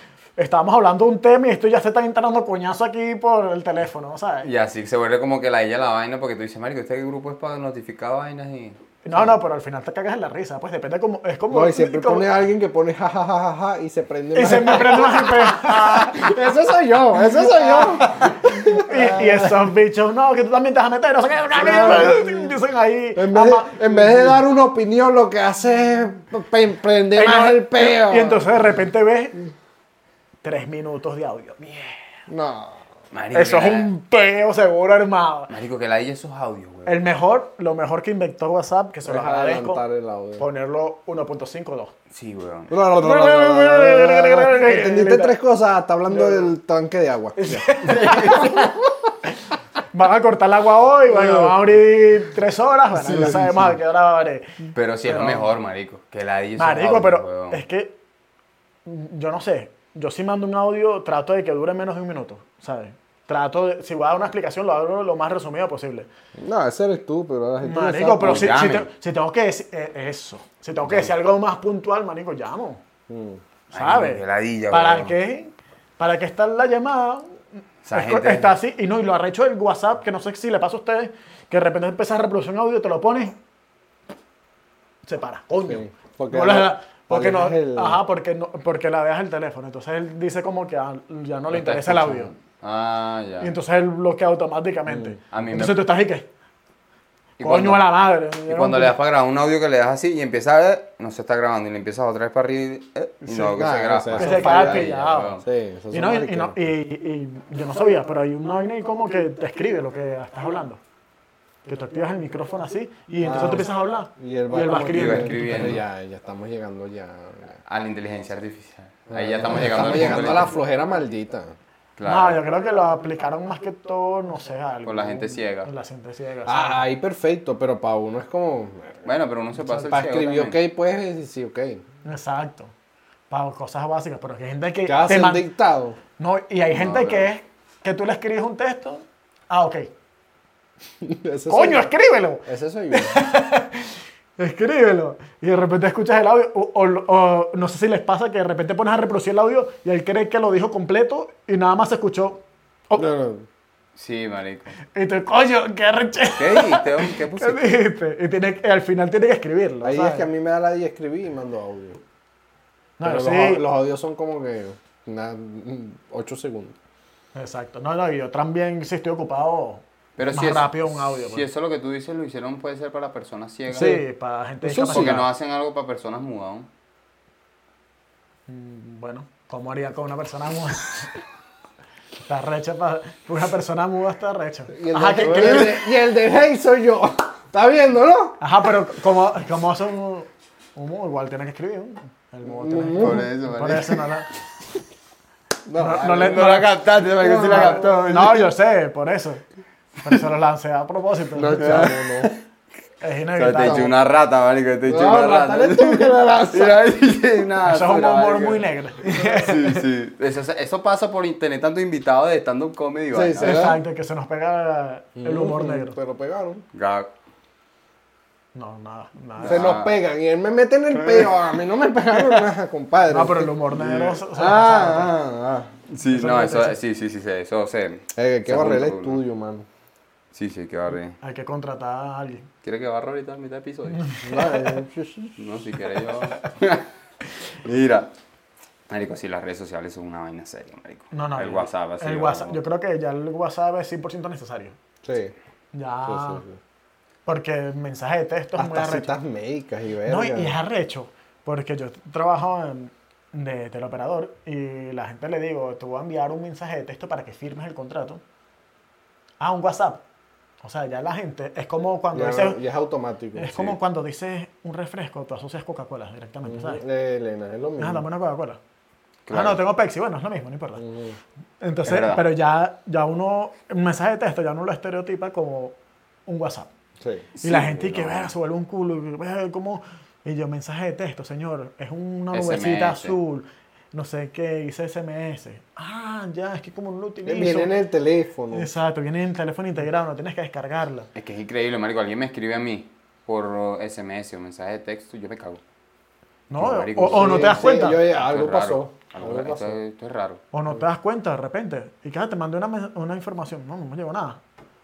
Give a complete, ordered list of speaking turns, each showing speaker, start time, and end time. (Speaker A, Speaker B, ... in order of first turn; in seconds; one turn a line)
Speaker A: 0.4-4.5
Speaker B: 4.4-8.8
Speaker A: 9.0-12.3
Speaker C: 11.5-19.7
Speaker A: 14.3-16.3
Speaker A: 17.2-24.4
Speaker C: 21.5-22.6
Speaker C: 23.1-28.6
Speaker A: 27.1-29.4
Speaker A: 30.4-32.0
Speaker C: 32.3-32.8
Speaker B: 33.1-33.9
Speaker A: 33.3-35.5
Speaker B: 35.5-37.0
Speaker A: 36.9-39.8
Speaker C: 39.0-40.4
Speaker A: 40.4-41.9
Speaker B: 42.1-42.7
Speaker C: 42.7-48.7
Speaker A: 42.9-45.3
Speaker A: 46.1-46.5
Speaker A: 47.4-48.7
Speaker B: 47.9-48.6
Speaker A: 49.9-55.5
Speaker C: 51.1-51.5
Speaker C: 53.0-53.5
Speaker B: 54.7-57.6
Speaker A: 56.6-58.0
Speaker A: 58.9-66.1
Speaker C: 66.3-68.5
Speaker A: 67.6-72.8
Speaker B: 68.2-68.9
Speaker B: 70.8-71.1
Speaker C: 73.1-73.4
Speaker A: 73.7-83.3
Speaker B: 73.7-75.1
Speaker B: 77.8-78.5
Speaker A: 85.0-92.3
Speaker C: 85.7-88.0
Speaker B: 91.5-93.5
Speaker A: 93.4-96.3
Speaker C: 94.9-95.2
Speaker B: 95.3-95.9
Speaker B: 97.4-97.8
Speaker A: 97.4-99.0
Speaker B: 98.5-105.4
Speaker A: 103.3-103.6
Speaker C: 103.5-106.6
Speaker A: 104.1-105.3
Speaker A: 105.9-110.8
Speaker A: 111.6-115.8
Speaker C: 113.2-117.6
Speaker B: 114.9-115.8
Speaker B: 117.6-120.5
Speaker C: 119.1-121.5
Speaker A: 119.5-120.5
Speaker B: 122.0-122.4
Speaker A: 122.0-126.9
Speaker B: 124.8-125.7
Speaker C: 126.5-129.1
Speaker B: 129.0-130.6
Speaker C: 129.8-131.8
Speaker A: 132.0-132.7
Speaker A: 133.3-135.5
Speaker C: 134.8-136.0
Speaker A: 136.2-139.9
Speaker B: 136.7-137.3
Speaker C: 141.0-141.9
Speaker A: 141.5-153.1
Speaker C: 142.4-143.2
Speaker C: 152.9-153.4
Speaker B: 153.9-154.8
Speaker A: 154.8-160.3
Speaker B: 156.3-157.8
Speaker C: 159.8-162.0
Speaker A: 163.0-163.6
Speaker C: 163.0-166.8
Speaker A: 167.3-171.4
Speaker B: 170.2-174.0
Speaker A: 173.7-175.3
Speaker C: 174.6-175.2
Speaker B: 174.8-176.7
Speaker A: 178.5-181.2
Speaker A: 182.3-185.8
Speaker C: 184.7-188.4
Speaker B: 185.2-185.8
Speaker A: 188.4-194.3
Speaker C: 192.4-193.2
Speaker B: 193.0-194.2
Speaker C: 195.7-196.5
Speaker A: 195.8-196.7
Speaker B: 195.8-198.5
Speaker C: 197.2-197.9
Speaker A: 197.3-199.4
Speaker A: 200.0-201.9
Speaker C: 201.3-202.3
Speaker B: 201.6-202.3
Speaker A: 203.0-203.9
Speaker B: 203.3-213.7
Speaker C: 203.6-203.9
Speaker C: 204.8-206.8
Speaker A: 207.6-209.8
Speaker C: 213.1-213.8
Speaker A: 213.4-215.9
Speaker C: 215.2-216.6
Speaker B: 216.7-217.1
Speaker A: 218.5-219.8
Speaker B: 219.4-220.0
Speaker C: 219.4-225.7
Speaker A: 223.1-225.1
Speaker B: 225.9-229.2
Speaker A: 226.1-226.8
Speaker C: 228.2-229.7
Speaker B: 230.3-231.2
Speaker A: 231.2-232.5
Speaker B: 232.6-234.1
Speaker A: 233.9-234.8
Speaker C: 234.2-235.4
Speaker B: 235.4-236.9
Speaker B: 237.4-238.1
Speaker B: 238.9-242.6
Speaker A: 241.1-244.8
Speaker C: 245.0-245.3
Speaker A: 245.7-246.4
Speaker C: 246.0-246.6
Speaker A: 247.2-249.1
Speaker C: 248.6-250.6
Speaker A: 250.1-258.2
Speaker A: 259.4-260.0
Speaker A: 260.6-262.6
Speaker C: 262.1-263.7
Speaker A: 263.3-266.8
Speaker C: 266.4-268.0
Speaker A: 267.8-268.6
Speaker B: 269.2-269.6
Speaker A: 269.3-270.8
Speaker C: 270.8-271.2
Speaker A: 271.6-275.8
Speaker B: 271.9-272.2
Speaker A: 276.3-276.7
Speaker C: 277.0-277.3
Speaker B: 277.3-278.3
Speaker A: 277.4-287.7
Speaker B: 282.3-283.2
Speaker C: 287.2-288.7
Speaker A: 288.5-291.1
Speaker B: 291.1-295.6
Speaker A: 296.5-298.0
Speaker B: 296.6-300.4
Speaker C: 297.0-299.8
Speaker A: 300.5-304.4